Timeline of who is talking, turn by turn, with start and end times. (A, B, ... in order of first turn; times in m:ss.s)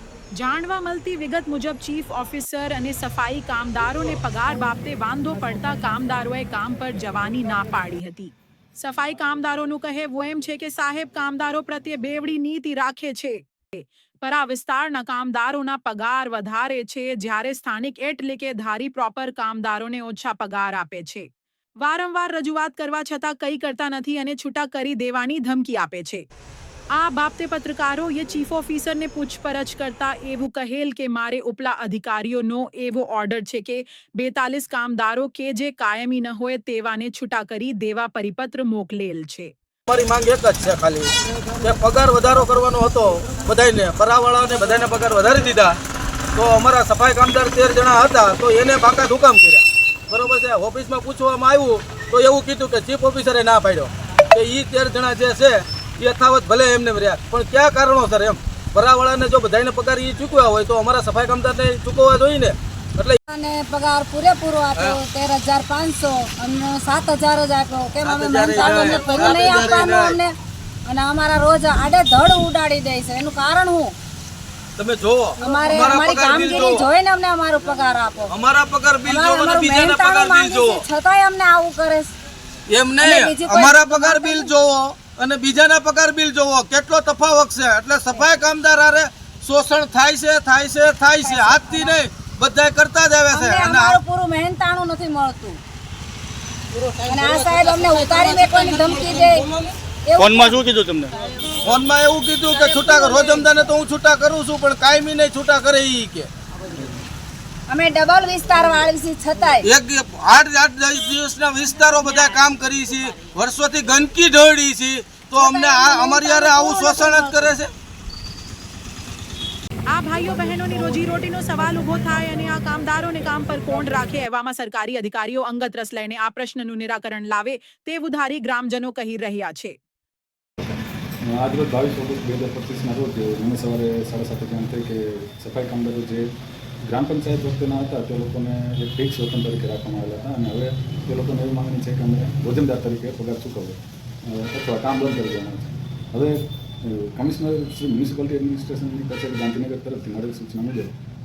0:00.3-0:21.3 A
0:21.8-0:26.2 A
0:26.9-0:39.5 A
0:39.9-0:45.8 B
0:46.3-1:03.2 B
1:03.3-1:10.3 C
1:04.7-1:05.0 B
1:08.0-1:10.2 B
1:10.8-1:13.9 C
1:14.8-1:16.8 B
1:15.4-1:18.3 C
1:18.3-1:20.8 B
1:19.0-1:22.1 C
1:22.7-1:34.0 B
1:23.0-1:24.5 C
1:31.2-1:31.9 C
1:33.3-1:35.6 C
1:37.0-1:40.6 C
1:40.2-1:41.1 B
1:41.6-1:46.3 B
1:42.5-1:43.5 C
1:47.7-1:49.7 C
1:49.6-1:57.7 B
1:55.4-1:57.5 C
1:59.9-2:09.8 A
2:11.2-2:16.3 D
2:16.8-2:30.9 D